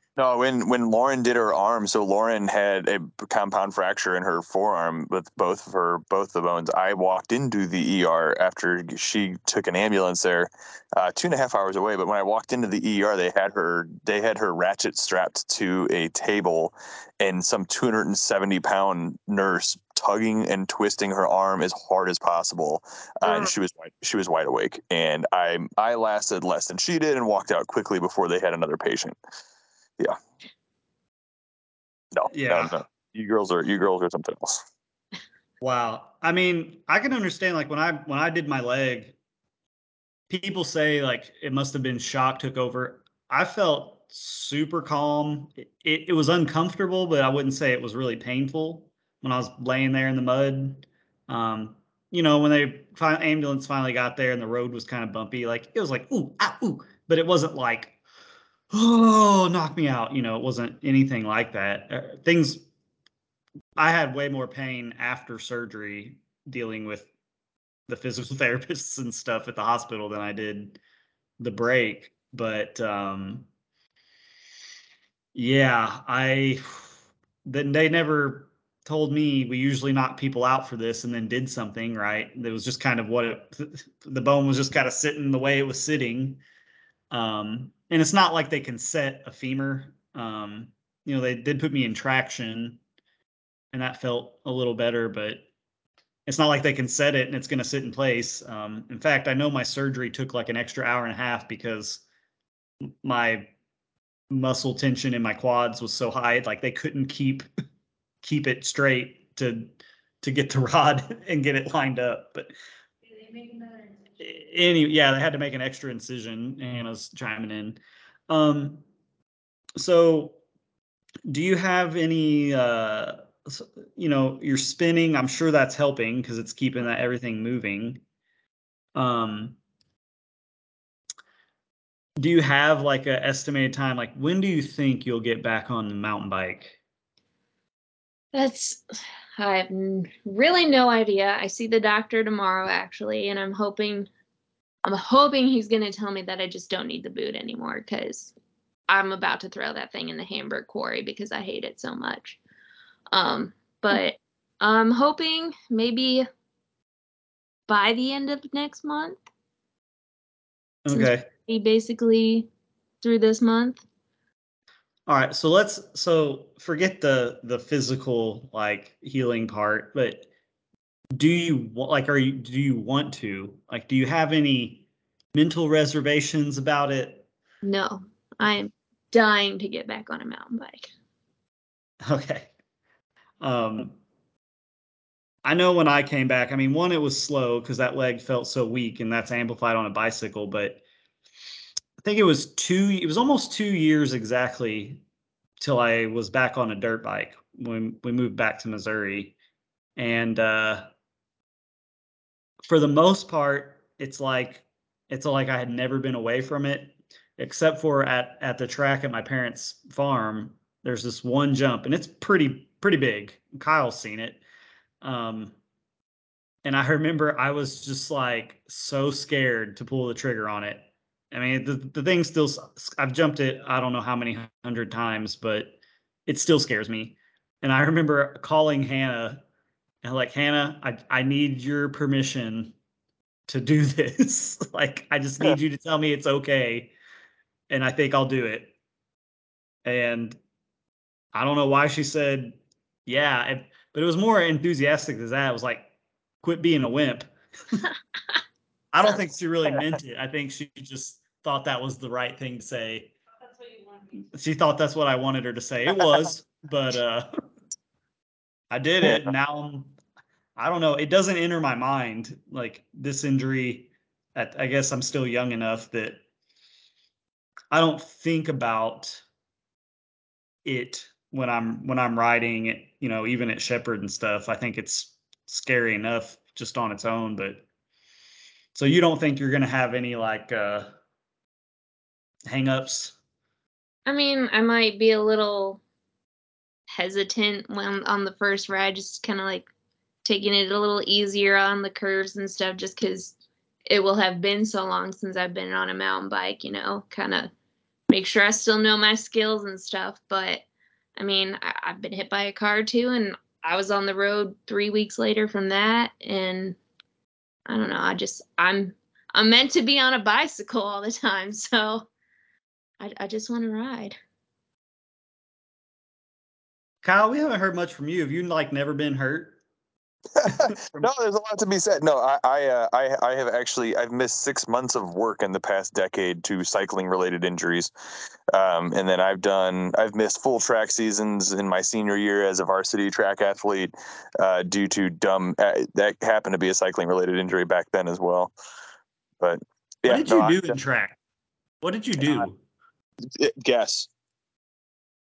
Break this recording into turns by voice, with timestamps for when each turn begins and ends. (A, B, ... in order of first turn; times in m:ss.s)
0:00.2-0:29.2 A
0:23.2-0:23.5 B
0:32.1-0:34.6 A
0:32.3-0:32.8 B
0:35.6-0:39.2 B
0:40.3-0:58.0 B
0:58.7-1:02.6 B
1:03.8-1:07.1 B
1:07.9-1:10.8 B
1:11.4-1:13.5 B
1:15.3-1:16.9 B
1:17.4-1:26.4 B
1:27.1-1:32.8 B
1:33.7-1:35.4 B
1:36.2-1:42.0 B
1:43.0-1:43.5 B
1:44.3-1:47.5 B
1:48.2-1:52.5 B
1:54.2-1:58.8 B
1:59.8-2:00.4 B
2:01.3-2:08.0 B
2:08.9-2:09.6 B
2:12.2-2:16.8 B
2:18.3-2:18.8 C
2:19.4-2:24.1 C
2:24.8-2:28.3 C
2:28.9-2:32.4 C
2:33.1-2:36.3 C
2:37.7-2:39.2 C
2:40.8-2:41.3 B
2:40.9-2:42.5 C
2:43.0-2:43.8 C
2:45.1-2:50.3 B
2:51.2-2:57.3 B
2:57.6-3:00.9 C
3:02.0-3:02.5 B
3:03.4-3:04.0 B
3:05.4-3:10.8 B
3:12.0-3:15.0 B
3:15.6-3:19.3 B
3:20.0-3:20.9 B
3:22.6-3:34.4 B
3:35.0-3:35.5 B
3:36.6-3:49.4 B
3:50.0-3:52.7 B
3:53.5-3:56.9 B
3:57.7-3:58.7 B
3:59.8-4:00.4 B
4:01.3-4:05.9 B
4:06.4-4:07.8 B
4:08.9-4:13.1 B
4:14.2-4:17.3 B
4:18.7-4:19.9 B
4:19.0-4:19.3 A
4:20.6-4:26.2 B
4:27.7-4:29.2 B
4:30.6-4:37.6 B
4:38.7-4:40.9 B
4:42.5-4:43.2 B
4:44.0-4:45.8 C
4:46.9-4:49.7 C
4:50.2-4:53.4 C
4:53.9-4:57.5 C
4:58.1-5:00.6 C
5:01.2-5:06.8 C
5:07.7-5:12.1 C
5:13.0-5:14.2 C
5:17.0-5:19.6 B
5:20.4-5:21.1 B
5:20.5-5:27.9 A
5:28.5-5:38.5 A
5:39.4-5:40.8 A
5:40.1-5:41.2 B
5:41.8-5:42.6 B
5:42.2-5:42.5 A
5:43.3-5:44.1 A